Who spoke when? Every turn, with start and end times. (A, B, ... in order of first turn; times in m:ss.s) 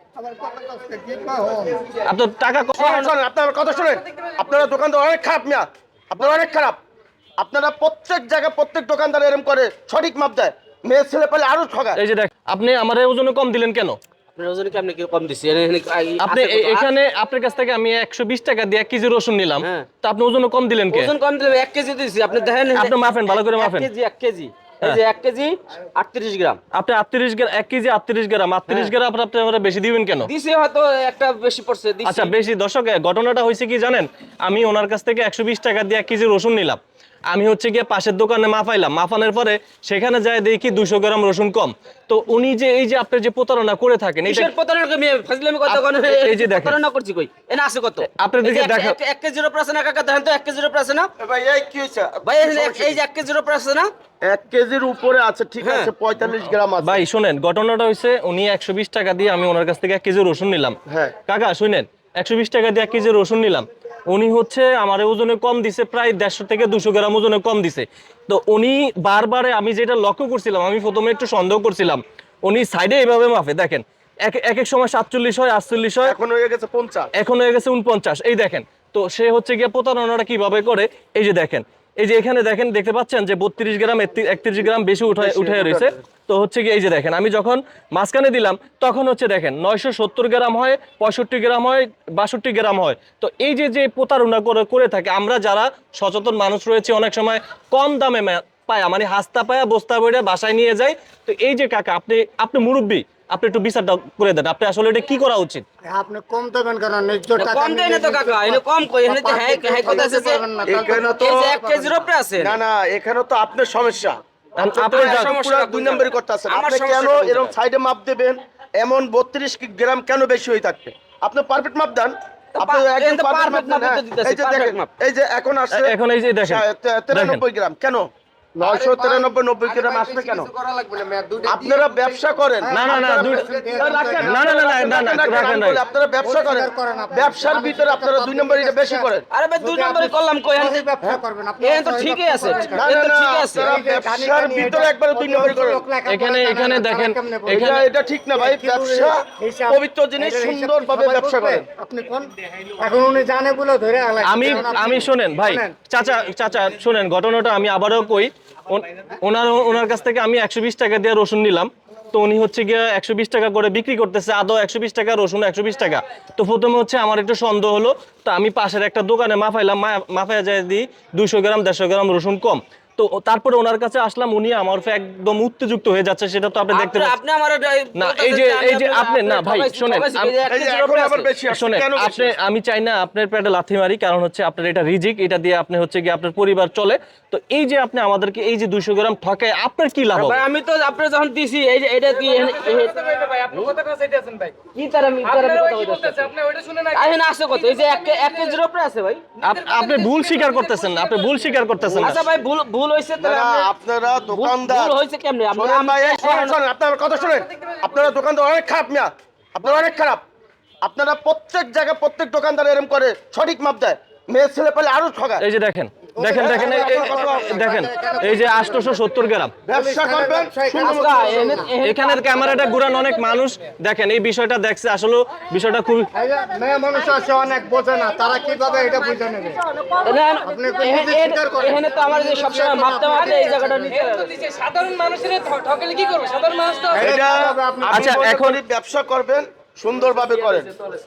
0:00.3-0:01.8 A
0:02.0-0:03.0 B
0:02.8-0:06.8 C
0:07.4-0:12.0 C
0:12.0-0:14.0 B
0:14.3-0:16.9 D
0:16.2-0:21.1 B
0:19.6-0:19.9 D
0:20.9-0:26.6 D
0:22.7-0:23.9 B
0:26.7-0:30.3 B
0:30.2-0:32.3 D
0:32.0-0:36.8 B
0:37.3-0:44.5 B
0:44.2-0:51.1 D
0:45.7-0:46.8 B
0:48.1-0:49.0 B
0:51.2-0:53.0 C
0:52.2-0:53.9 D
0:54.2-0:57.0 C
0:55.6-0:55.9 D
0:56.8-1:16.1 B
1:00.9-1:01.1 C
1:16.0-1:17.1 C
1:17.2-1:45.6 B
1:25.2-1:25.9 C
1:45.9-1:52.1 A
1:47.4-1:50.4 D
1:50.6-1:51.5 C
1:51.2-1:52.6 D
1:52.4-1:54.2 C
1:54.6-1:55.3 B
1:54.6-1:57.5 D
1:54.7-2:08.0 C
2:02.6-2:04.9 D
2:05.7-2:07.4 B
2:08.6-2:10.5 C
2:08.9-2:09.2 A
2:09.7-2:11.3 E
2:10.6-2:11.7 A
2:11.5-2:19.2 C
2:12.6-2:15.2 A
2:12.7-2:13.5 B
2:14.1-2:15.8 B
2:16.2-2:23.0 A
2:19.3-2:20.8 D
2:21.6-2:23.7 D
2:22.7-2:25.8 C
2:23.6-2:27.8 A
2:26.0-2:27.9 B
2:27.5-2:31.6 C
2:28.3-2:35.7 A
2:34.2-2:57.1 B
2:56.7-3:01.3 D
2:58.0-3:00.3 B
3:00.5-3:02.3 C
3:01.5-3:10.4 B
3:10.1-3:13.9 D
3:13.8-3:14.5 E
3:14.7-3:19.2 D
3:16.4-3:16.8 E
3:19.4-3:22.2 B
3:22.0-3:23.7 D
3:23.2-3:25.0 C
3:24.3-3:26.5 D
3:25.5-3:30.2 C
3:30.8-3:35.4 C
3:35.4-3:39.6 B
3:36.2-3:39.0 A
3:36.3-3:37.7 C
3:39.6-3:41.7 C
3:39.7-3:41.7 A
3:40.8-3:42.8 D
3:41.8-3:46.1 B
3:46.1-3:49.6 A
3:50.0-3:54.5 D
3:50.4-3:54.0 A
3:54.4-3:56.9 E
3:56.9-4:00.7 C
3:56.9-3:58.2 A
3:57.9-3:58.6 B